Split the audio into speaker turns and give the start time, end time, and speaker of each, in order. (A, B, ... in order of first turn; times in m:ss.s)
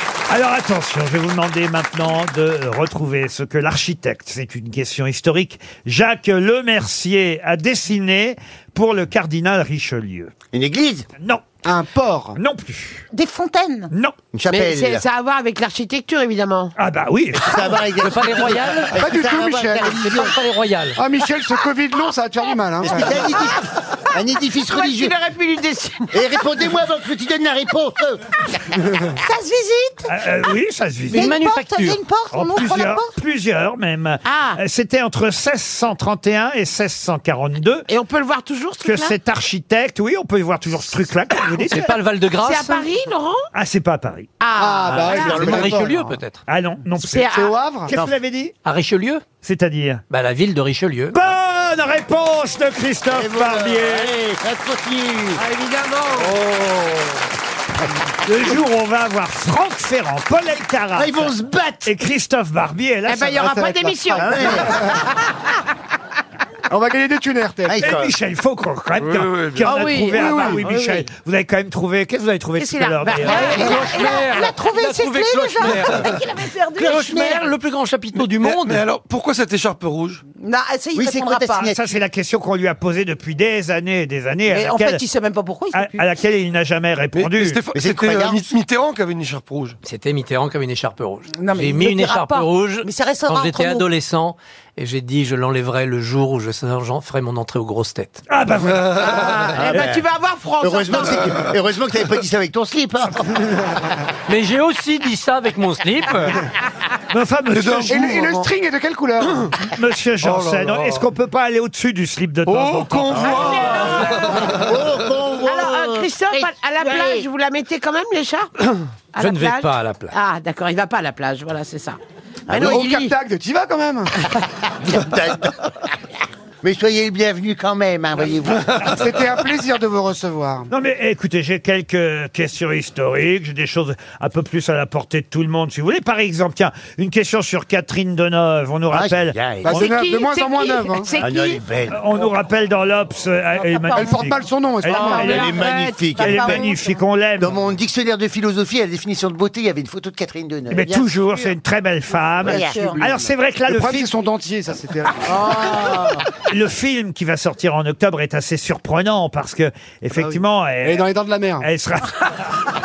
0:00.3-0:10.3 A
0:10.5-0:11.1 B
0:11.6-0:12.4 C
0:12.4-0:13.0 A
0:13.1-0:13.9 D
0:14.3-0:15.0 B
0:14.5-0:16.7 E
0:16.8-0:17.6 A
0:17.3-0:20.4 B
0:18.0-0:19.0 F
0:19.0-0:20.2 C
0:19.8-0:21.0 F
0:21.0-0:23.2 C
0:22.8-0:25.1 B
0:24.7-0:26.2 E
0:26.1-0:28.4 B
0:29.2-0:30.2 D
0:30.1-0:31.3 A
0:31.1-0:33.1 D
0:31.1-0:32.0 F
0:32.3-0:37.9 A
0:34.2-0:34.6 E
0:37.9-0:39.2 E
0:38.8-0:41.9 A
0:41.7-0:42.9 F
0:42.4-0:43.5 E
0:43.5-0:44.3 A
0:44.4-0:45.6 E
0:44.6-0:46.1 C
0:45.1-0:45.9 B
0:45.2-0:46.4 F
0:46.5-0:47.3 A
0:47.0-0:47.6 E
0:47.3-0:47.9 C
0:47.9-0:48.5 A
0:48.6-0:49.2 F
0:49.4-0:50.0 A
0:50.1-0:51.2 F
0:51.1-0:54.1 A
0:53.1-0:55.4 B
0:55.4-0:56.4 E
0:56.3-0:57.0 B
0:58.3-1:01.3 A
1:01.0-1:01.9 B
1:01.8-1:03.5 A
1:03.1-1:04.6 E
1:03.3-1:05.0 C
1:04.2-1:04.9 B
1:06.7-1:07.8 C
1:07.7-1:08.1 B
1:07.8-1:13.5 A
1:09.0-1:09.8 G
1:09.7-1:10.2 F
1:09.9-1:11.0 E
1:10.2-1:10.6 C
1:12.6-1:14.3 E
1:13.2-1:17.3 D
1:13.3-1:16.1 F
1:16.8-1:18.8 F
1:16.8-1:17.4 B
1:18.2-1:20.2 G
1:20.4-1:21.7 D
1:21.0-1:22.0 B
1:21.6-1:25.0 A
1:24.5-1:26.0 D
1:25.7-1:27.6 A
1:27.1-1:29.8 G
1:27.7-1:28.4 B
1:29.8-1:38.2 F
1:31.4-1:33.9 D
1:38.3-1:39.2 A
1:38.7-1:39.1 G
1:39.0-1:41.3 E
1:39.5-1:40.0 B
1:40.6-1:43.5 B
1:44.3-1:46.4 F
1:47.1-1:48.2 A
1:47.5-1:48.4 G
1:47.9-1:49.5 C
1:49.7-1:53.4 A
1:50.2-1:51.1 G
1:52.5-1:54.6 G
1:53.1-1:57.2 B
1:53.3-1:54.2 E
1:55.4-1:58.5 E
1:59.1-2:03.1 E
1:59.2-2:00.1 F
2:02.5-2:02.9 B
2:02.6-2:04.1 C
2:04.2-2:05.7 B
2:06.6-2:08.9 B
2:08.8-2:10.7 C
2:10.7-2:19.4 A
2:18.9-2:19.9 B
2:19.6-2:21.1 C
2:19.7-2:21.6 E
2:21.2-2:22.0 B
2:21.9-2:25.5 A
2:23.6-2:24.3 D
2:24.0-2:25.4 C
2:24.9-2:26.1 E
2:24.9-2:27.0 D
2:25.2-2:26.7 B
2:26.2-2:27.6 A
2:27.4-2:31.0 B
2:30.7-2:34.1 A
2:32.4-2:33.3 B
2:32.5-2:33.0 D
2:33.7-2:35.8 C
2:35.3-2:36.2 D
2:36.4-2:41.1 A
2:40.2-2:41.7 C
2:41.6-2:42.2 A